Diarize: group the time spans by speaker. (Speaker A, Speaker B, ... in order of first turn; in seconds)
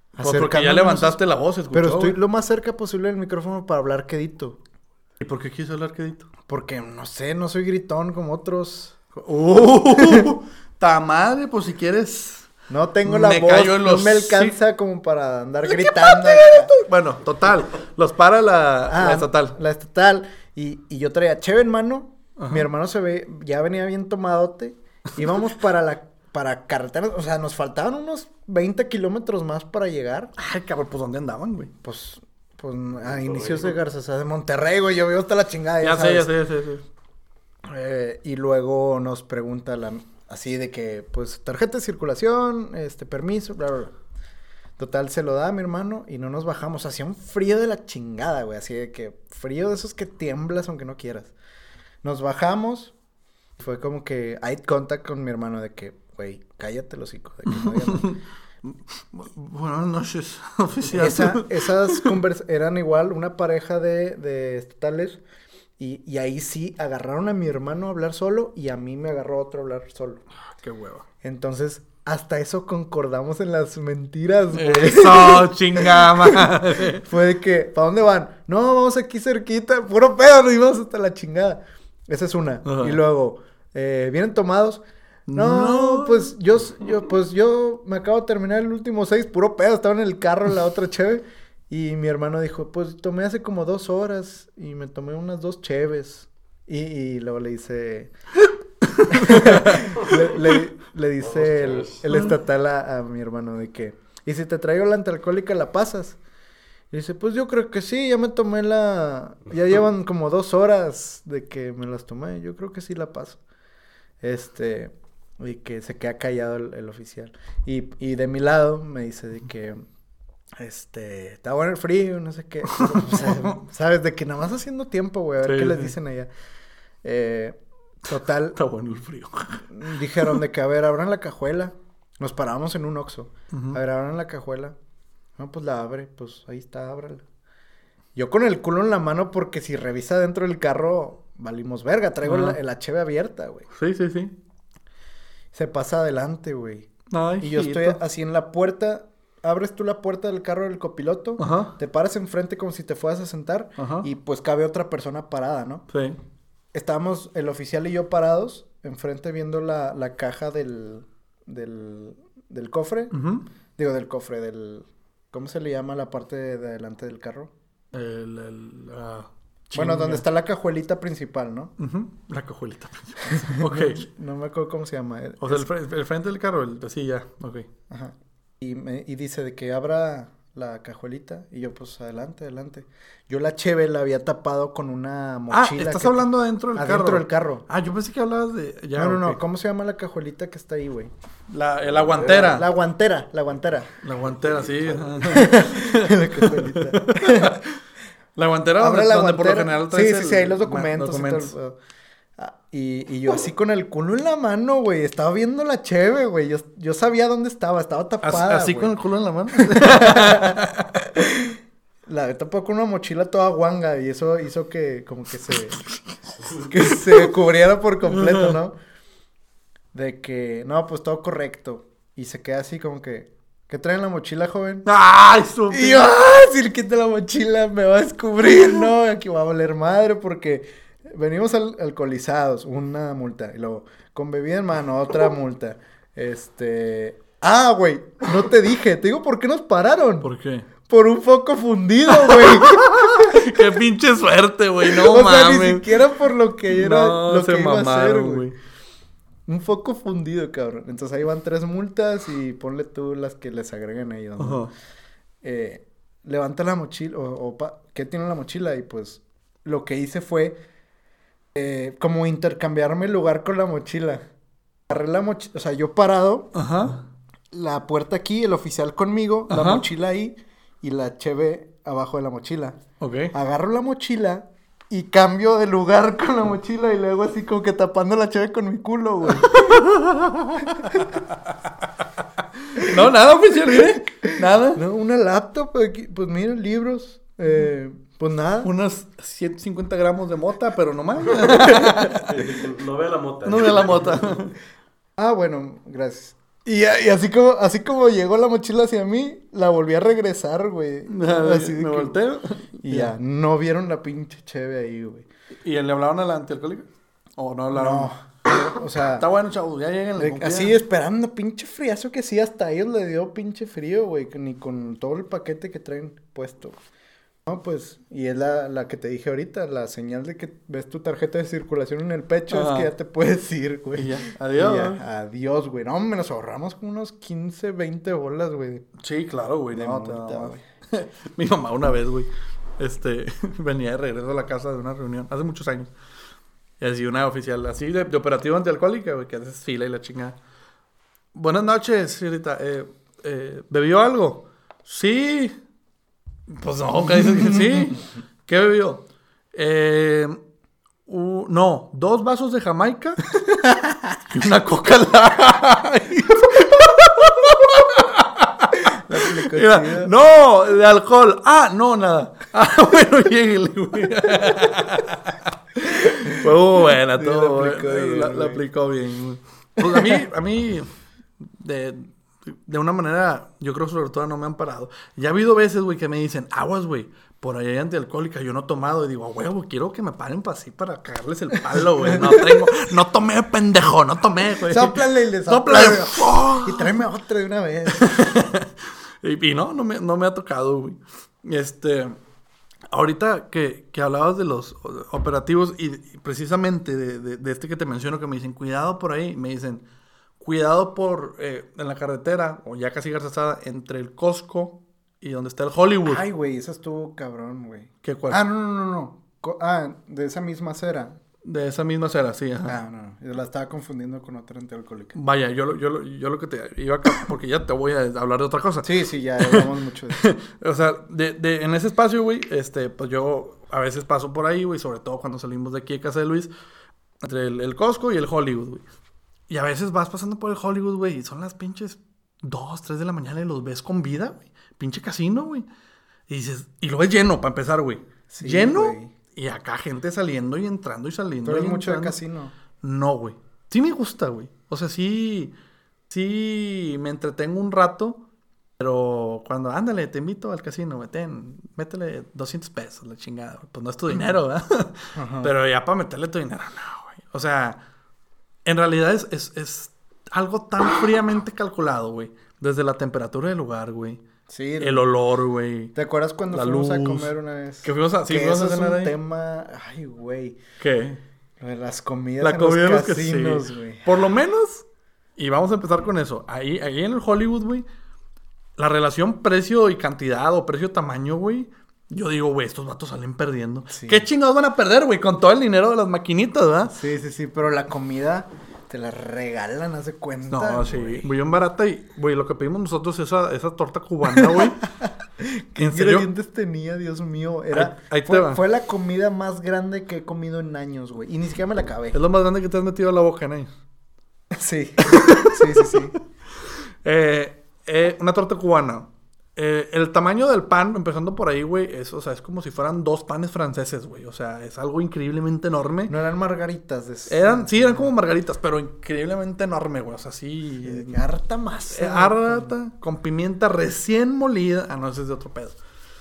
Speaker A: 0.1-1.2, 1.7-4.6, 6.5-9.0, 9.9-10.3, 12.7-16.7, 18.9-30.3, 31.8-36.3, 37.6-43.9, 44.8-51.3, 52.0-52.9, 53.6-58.1, 60.9-65.2, 65.8-70.2, 71.2-98.1, 99.1-106.2, 106.9-113.4, 114.2-119.8, 120.6-126.3, 127.0-128.6, 129.7-134.7, 135.4-137.2, 138.1-143.7, 145.5-146.9, 147.4-155.8, 156.7-163.1, 163.8-167.5, 169.7-171.7, 173.5-175.7, 177.9-187.6, 188.9-191.1, 192.5-193.9, 195.2-197.6, 198.8-201.8, 202.4-208.9, 209.5-215.8, 216.5-218.7, 219.9-224.8, 225.7-240.3, 240.8-243.8, 244.8-248.4, 249.4-254.7, 255.4-260.6, 261.5-264.2, 264.9-266.5, 267.5-272.8, 273.3-279.8, 280.7-281.1, 282.8-283.0, 283.7-288.7, 291.7-292.1, 295.2-302.1, 302.8-305.3, 307.7-309.3, 310.2-316.8, 317.4-328.9, 329.7-330.6, 358.9-360.1, 365.8-366.5, 367.1-368.6, 369.8-370.2, 381.9-382.8, 384.5-388.2, 406.0-411.2, 412.6-415.1, 418.8-420.2, 438.3-439.1, 441.4-442.5, 455.1-455.5, 464.5-465.0, 465.9-470.6, 471.6-474.1, 483.9-484.2, 486.9-491.3, 494.4-502.1, 504.5-506.2, 516.1-518.1, 520.8-522.7
Speaker B: 0.2-2.2, 5.2-6.3, 9.1-12.5, 13.0-14.5, 15.7-19.5, 22.4-22.6, 30.4-31.7, 35.8-36.8, 57.5-62.1, 70.6-71.0, 74.5-77.0, 82.6-83.0, 85.3-86.3, 98.8-99.9, 122.7-123.6, 125.4-125.9, 128.5-130.4, 133.5-133.8, 142.2-142.6, 143.7-144.3, 147.1-148.0, 151.4-151.8, 153.8-154.1, 155.9-156.2, 163.1-163.4, 167.9-170.2, 171.8-174.1, 175.4-177.7, 185.5-189.4, 191.5-192.7, 194.0-197.8, 198.3-201.5, 208.2-210.9, 218.1-218.6, 224.8-226.1, 240.2-240.7, 242.1-246.0, 246.7-248.6, 254.4-254.7, 266.5-267.0, 269.5-269.8, 273.0-273.3, 279.4-281.6, 282.4-284.8, 288.6-292.4, 293.4-294.5, 301.1-303.1, 305.6-308.1, 309.2-310.8, 322.5-322.9, 323.9-325.0, 329.0-335.9, 336.8-340.4, 341.3-345.6, 346.5-350.4, 351.1-353.4, 354.1-370.9, 371.4-386.9, 387.9-392.1, 392.9-399.8, 400.4-406.2, 408.0-408.4, 411.4-412.7, 415.1-426.5, 427.2-428.8, 429.5-435.6, 436.3-442.2, 442.8-445.5, 446.1-448.2, 448.8-457.8, 458.6-464.2, 464.8-465.9, 466.5-467.3, 467.8-469.1, 470.8-471.2, 472.4-474.8, 475.4-477.9, 478.8-487.0, 490.5-494.8, 495.8-496.3, 497.7-498.6, 502.1-503.7, 505.0-506.1, 506.7-516.1, 517.3-521.2, 521.9-525.8
Speaker C: 33.0-33.7, 101.2-102.1, 191.9-192.6, 194.2-195.1, 291.3-294.4